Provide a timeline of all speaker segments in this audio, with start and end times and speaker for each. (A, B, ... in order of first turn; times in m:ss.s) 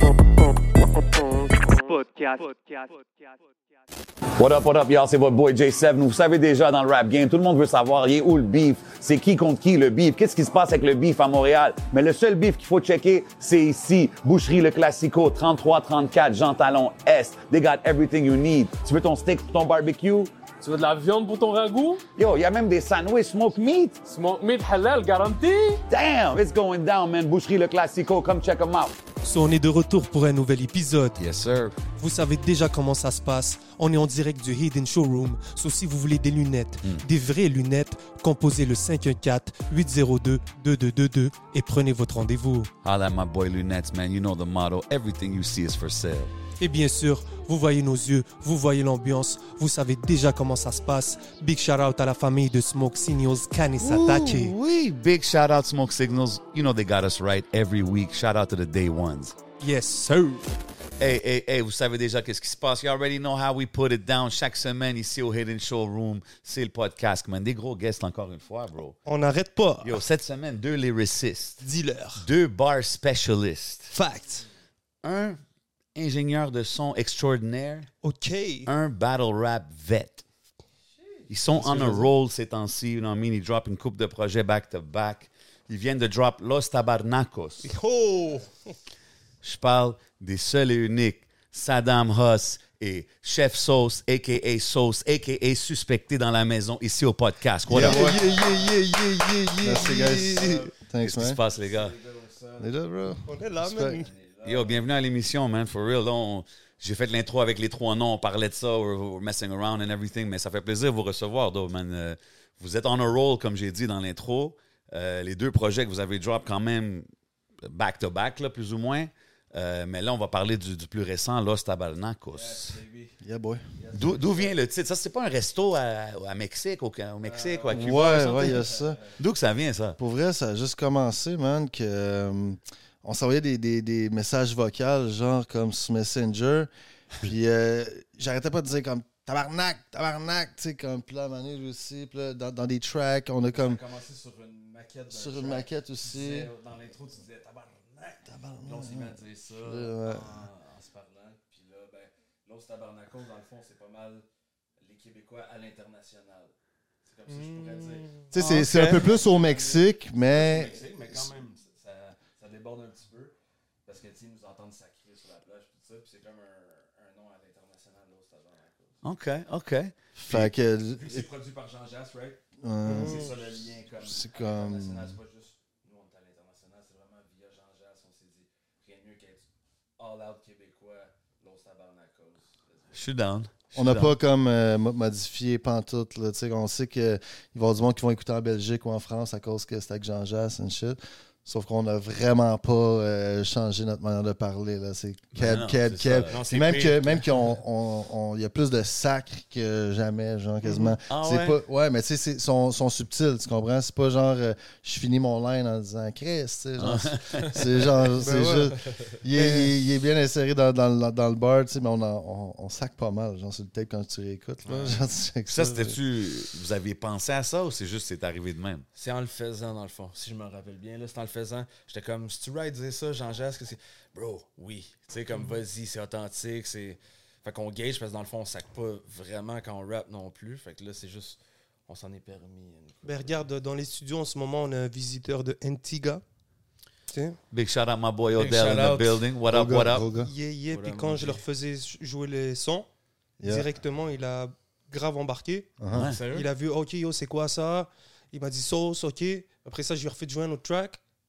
0:00.4-0:03.0 A
0:04.3-0:20.3 B
0:20.6-0:22.0 C
0:22.2-0:24.0 B
0:24.0-0:25.8 C
0:25.9-0:29.0 B
0:29.2-0:31.2 A
0:31.2-0:31.7 D
0:32.0-0:42.7 A
0:42.8-0:46.3 D
0:46.6-0:54.5 A
0:53.8-0:59.3 D
0:59.6-1:00.5 A
1:01.0-1:09.0 D
1:09.0-1:10.0 A
1:09.8-1:11.6 D
1:11.6-1:12.2 A
1:12.2-1:13.9 D
1:13.9-1:14.5 A
1:15.0-1:15.4 D
1:15.9-1:17.9 D
1:18.0-1:18.7 A
1:18.6-1:20.2 D
1:21.3-1:27.7 D
1:21.6-1:22.0 A
1:27.6-1:28.5 A
1:29.4-1:38.2 D
1:37.6-1:41.4 E
1:37.8-1:40.4 A
1:40.3-1:40.7 F
1:41.0-1:42.0 D
1:41.5-1:42.7 F
1:42.6-1:44.0 E
1:43.2-1:44.1 A
1:43.9-1:44.8 F
1:44.4-1:57.1 D
1:57.6-2:02.8 D
2:02.3-2:03.2 F
2:03.2-2:03.6 E
2:03.8-2:04.6 F
2:03.9-2:08.6 D
2:07.2-2:09.2 F
2:07.7-2:09.0 E
2:09.2-2:10.0 D
2:10.0-2:16.7 E
2:17.2-2:23.8 E
2:23.5-2:34.2 F
2:25.1-2:26.5 E
2:28.2-2:30.4 E
2:34.8-2:36.5 F
2:37.0-2:38.2 F
2:37.3-2:38.3 A
2:38.3-2:41.3 E
2:38.4-2:39.1 D
2:39.0-2:43.3 F
2:43.8-2:49.0 F
2:49.0-2:50.5 D
2:50.2-2:51.3 E
2:50.9-2:59.4 F
2:52.6-2:55.2 E
2:52.8-2:53.3 A
3:00.0-3:03.0 F
3:02.9-3:04.1 D
3:03.7-3:36.0 E
3:15.3-3:16.3 D
3:16.3-3:17.4 F
3:20.7-3:20.9 A
3:21.1-3:21.6 D
3:26.8-3:27.9 D
3:28.2-3:28.7 A
3:29.3-3:29.7 A
3:34.6-3:35.0 F
3:34.7-3:34.9 A
3:35.5-3:38.8 D
3:38.9-3:53.4 F
3:53.0-3:56.2 A
3:57.1-3:57.4 A
3:57.5-4:00.0 D
3:58.3-3:59.2 F
3:59.4-4:00.3 E
4:00.2-4:02.9 A
4:00.7-4:01.4 F
4:03.4-4:03.7 E
4:03.4-4:05.7 A
4:05.8-4:06.1 E
4:05.9-4:06.2 D
4:05.9-4:06.5 F
4:06.3-4:11.0 A